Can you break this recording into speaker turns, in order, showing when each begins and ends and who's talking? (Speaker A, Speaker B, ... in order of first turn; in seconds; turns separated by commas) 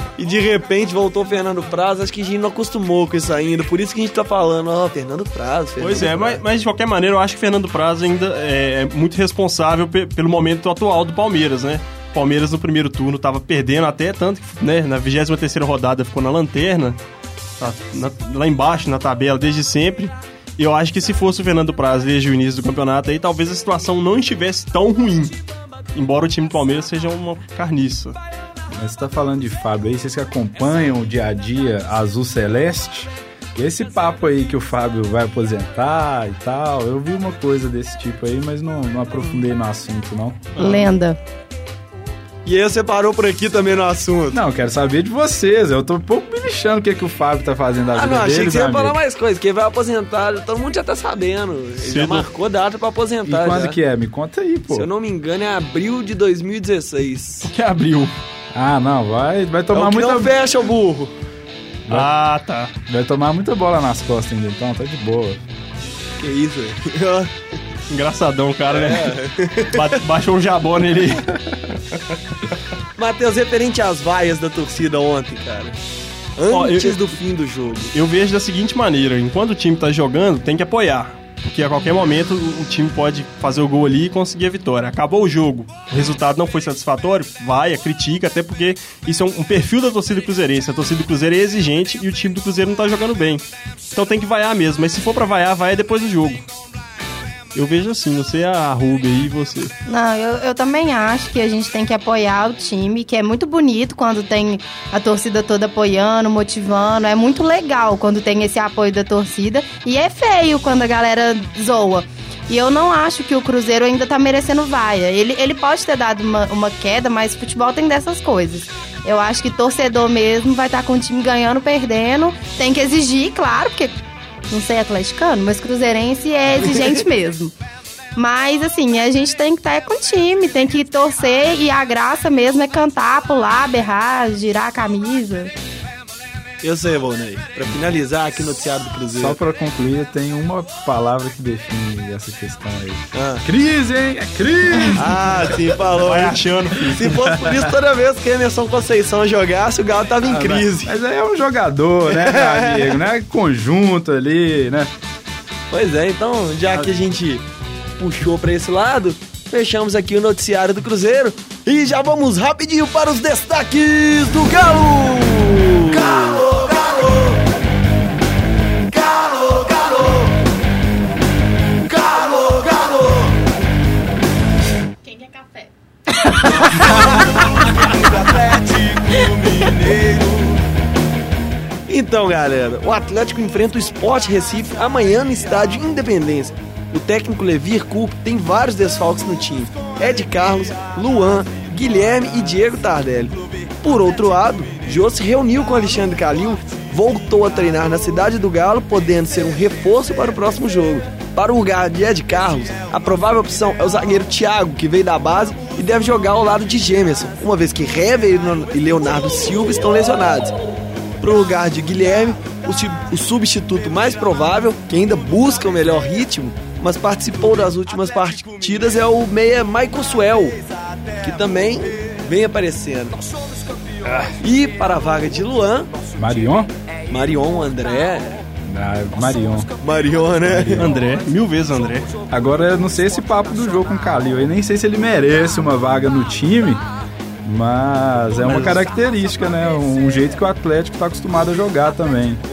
Speaker A: 0.2-6.4, Speaker B: 5.8-17.0, Speaker B: 17.6-25.4, Speaker B: 25.9-28.2, Speaker C: 28.7-40.5, Speaker D: 40.6-41.2, Speaker B: 40.6-40.9, Speaker A: 42.4-44.4, Speaker C: 44.3-49.0, Speaker A: 47.9-53.8, Speaker B: 51.8-52.3, Speaker C: 53.2-54.9, Speaker A: 54.7-57.5, Speaker B: 57.4-58.1, Speaker C: 58.5-60.3, Speaker A: 59.7-61.1, Speaker B: 61.9-62.7, Speaker C: 62.9-65.4, Speaker A: 66.2-67.3, Speaker B: 67.9-71.3, Speaker A: 68.7-69.9, Speaker A: 73.0-75.8, Speaker A: 76.4-77.9, Speaker B: 76.5-77.1, Speaker B: 77.9-96.4, Speaker B: 97.5-99.7, Speaker D: 99.8-124.0, Speaker D: 124.5-127.5, Speaker D: 128.1-135.5, Speaker A: 136.6-139.4, Speaker C: 139.1-145.6, Speaker A: 143.1-143.5, Speaker A: 145.0-150.9, Speaker B: 146.0-147.2, Speaker C: 147.3-147.7, Speaker C: 150.2-154.9, Speaker A: 152.1-153.0, Speaker A: 155.7-157.4, Speaker A: 158.0-166.5, Speaker E: 166.2-167.3, Speaker E: 168.9-170.3, Speaker A: 171.8-172.2, Speaker E: 172.0-173.3, Speaker E: 176.5-180.6, Speaker A: 181.9-210.5, Speaker A: 211.2-220.6, Speaker A: 221.2-223.2, Speaker A: 224.4-225.9, Speaker C: 226.2-226.7, Speaker A: 227.1-228.4, Speaker C: 228.7-229.7, Speaker A: 229.8-230.9, Speaker C: 230.4-230.9, Speaker B: 230.8-232.1, Speaker C: 232.3-236.8, Speaker C: 237.4-242.4, Speaker B: 238.4-238.8